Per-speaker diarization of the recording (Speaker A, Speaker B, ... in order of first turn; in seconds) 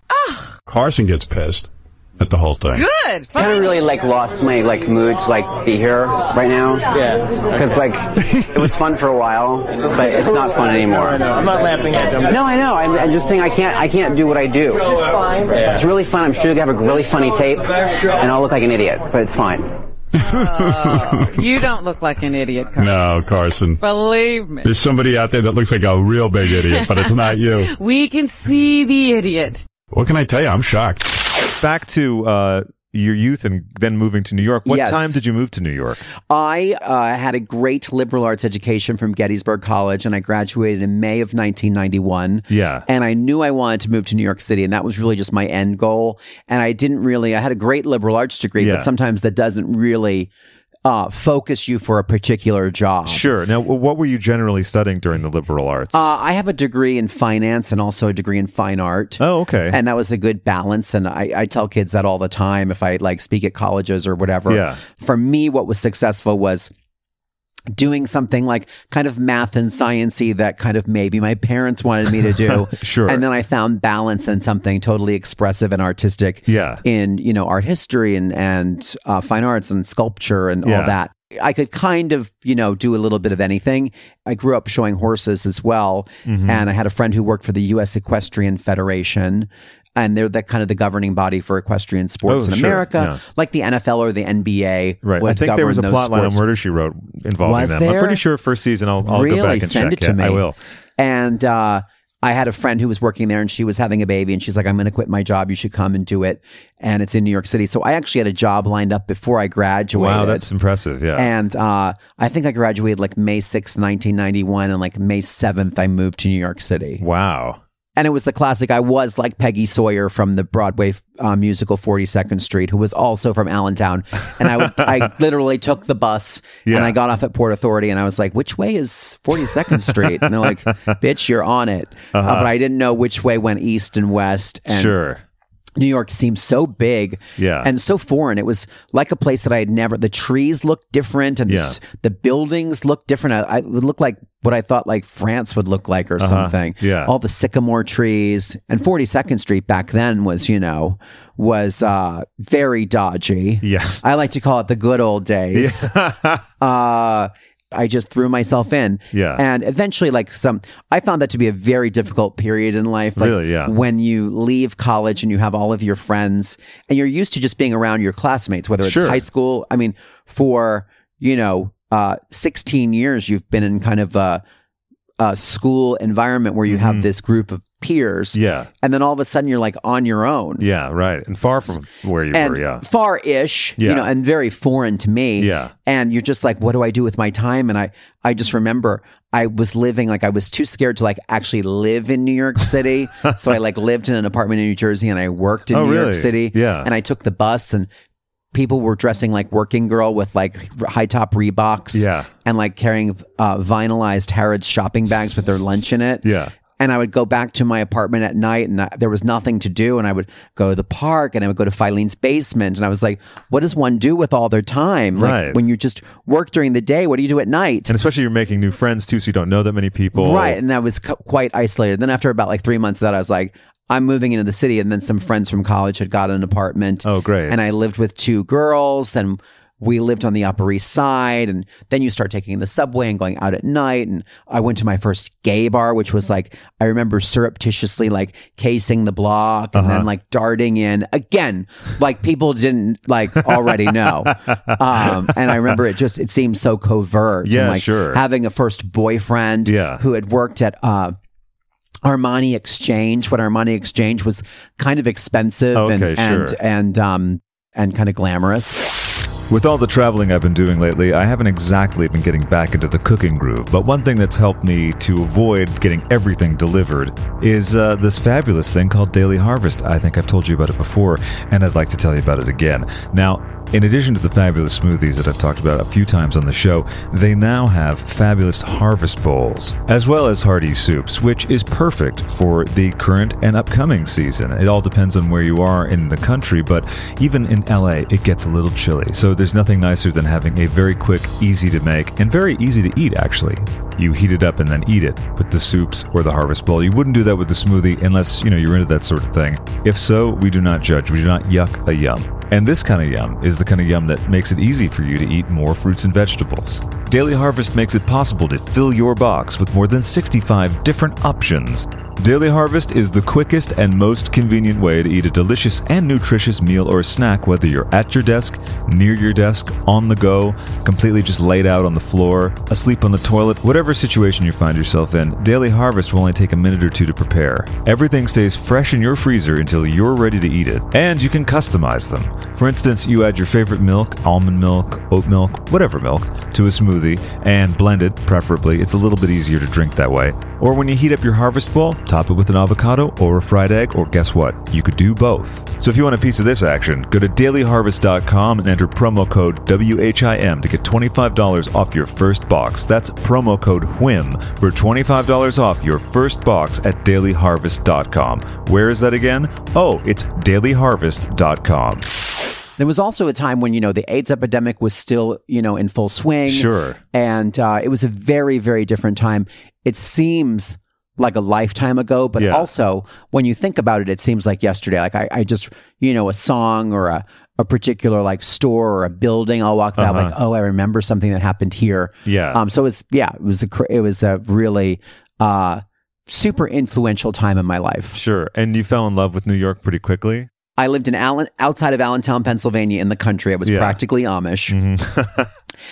Speaker A: 0.1-0.5, 2.7-3.4, 20.2-23.0, 23.8-24.7, 26.5-29.6
Speaker B: 0.7-2.9, 20.2-21.3, 22.8-23.8, 24.6-27.7, 29.9-31.3
Speaker C: 3.4-19.7
Speaker D: 31.6-36.0, 42.5-42.9, 48.6-48.9, 53.1-56.1, 59.2-59.8, 64.5-64.8, 72.4-73.2, 76.5-76.8, 80.7-81.0, 86.3-86.6, 92.3-93.2, 95.0-100.6, 109.9-111.3, 117.0-117.6, 124.6-124.9, 126.7-127.0, 129.9-130.5, 132.1-132.5, 134.7-135.2, 137.4-137.7, 141.5-141.8, 146.2-147.1, 153.6-154.0, 155.5-156.4, 159.1-159.4, 163.2-163.7, 168.8-169.2, 176.7-177.1, 178.3-178.7, 180.6-182.8, 183.8-184.1, 185.4-185.7, 195.7-196.9, 201.9-202.3, 206.2-206.6, 215.2-215.6, 217.9-220.6, 227.0-227.6, 239.7-240.1, 243.4-245.8, 247.4-248.2, 249.7-250.0, 255.7-256.6, 259.5-362.1, 366.5-367.0, 372.4-372.7, 380.0-380.4, 382.3-382.6, 388.1-390.5, 393.6-394.0, 394.7-395.5
Speaker E: 34.6-35.2, 36.3-50.3, 50.9-53.3, 55.9-66.7, 67.7-96.4, 97.4-98.2, 99.0-100.4, 101.0-110.5, 111.2-117.0, 118.0-135.0, 135.8-155.9, 156.6-174.4, 175.2-180.7, 182.3-197.9, 198.5-206.3, 206.8-217.9, 220.2-251.2, 252.0-258.8, 362.8-388.2, 390.8-394.8